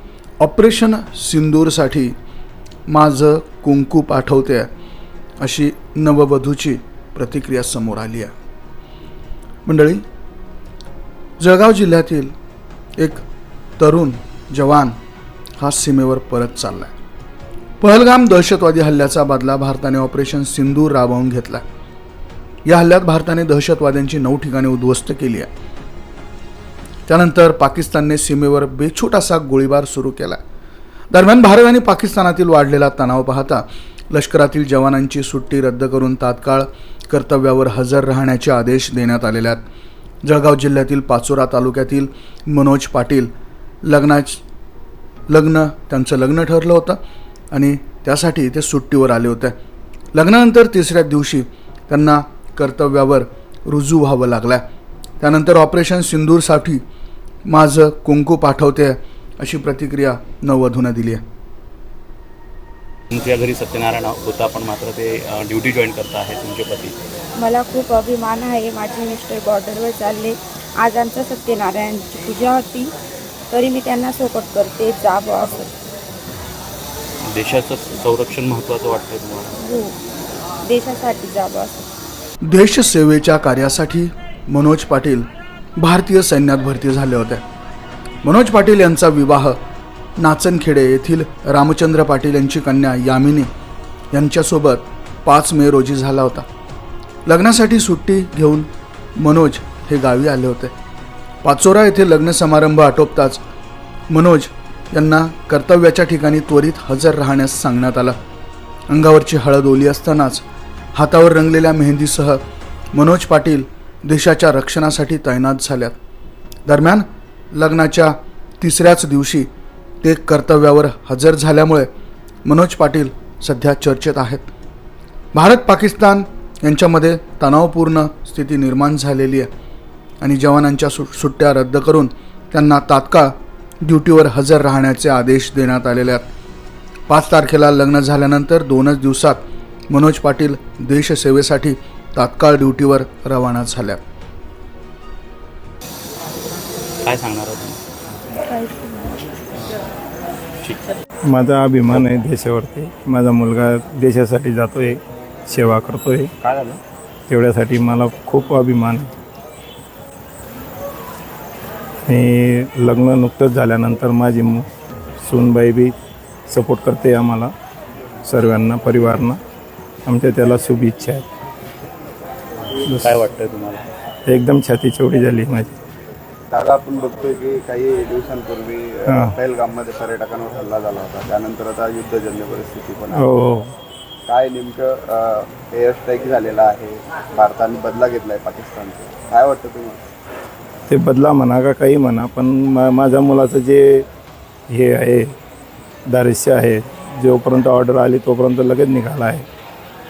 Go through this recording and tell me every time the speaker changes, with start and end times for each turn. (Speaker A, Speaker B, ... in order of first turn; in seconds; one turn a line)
Speaker A: 0.4-2.1
Speaker A: 2.9-4.7
Speaker A: 5.4-8.3
Speaker A: 9.6-10.0
Speaker A: 11.4-12.3
Speaker A: 13.0-13.2
Speaker A: 13.8-14.9
Speaker A: 15.6-16.9
Speaker A: 17.8-21.6
Speaker A: 22.6-25.5
Speaker A: 27.1-30.4
Speaker A: 31.1-39.6
Speaker A: 40.2-43.3
Speaker A: 43.8-44.4
Speaker A: 45.3-47.0
Speaker A: 47.5-49.5
Speaker A: 50.1-54.6
Speaker A: 55.2-56.8
Speaker A: 57.5-61.2
Speaker B: 63.1-67.0
Speaker C: 67.3-72.9
Speaker C: 73.5-75.7
Speaker B: 77.2-79.5
Speaker C: 79.6-79.9
Speaker C: 80.6-81.9
Speaker A: 82.4-87.4
Speaker A: 88.2-89.6
Speaker A: 90.2-93.5
Speaker A: 94.1-96.4
Speaker A: 97.2-100.7
Speaker A: 101.4-103.4
Speaker A: 104.1-108.2
Speaker A: 108.9-112.4
Speaker A: 112.9-116.0
Speaker A: 116.7-119.5
Speaker A: 120.0-121.9
Speaker A: 122.4-124.5
Speaker A: 125.3-129.5
Speaker A: 130.2-136.3
Speaker A: 137.1-144.0
Speaker B: 147.0-147.8
Speaker C: 148.4-149.3
Speaker D: 151.3-156.3
Speaker B: 156.4-156.8
Speaker D: 157.3-159.1
Speaker D: 162.0-164.7
Speaker D: 165.2-165.9
Speaker D: 166.5-167.5
Speaker D: 168.2-169.4
Speaker D: 170.1-171.2
Speaker B: 172.9-173.8
Speaker D: 172.9-173.2
Speaker D: 174.2-175.7
Speaker E: 176.5-183.3
Speaker D: 179.1-179.3
Speaker D: 183.1-183.7
Speaker E: 184.3-190.0
Speaker D: 190.9-194.1
Speaker D: 194.7-195.3
Speaker D: 196.1-199.4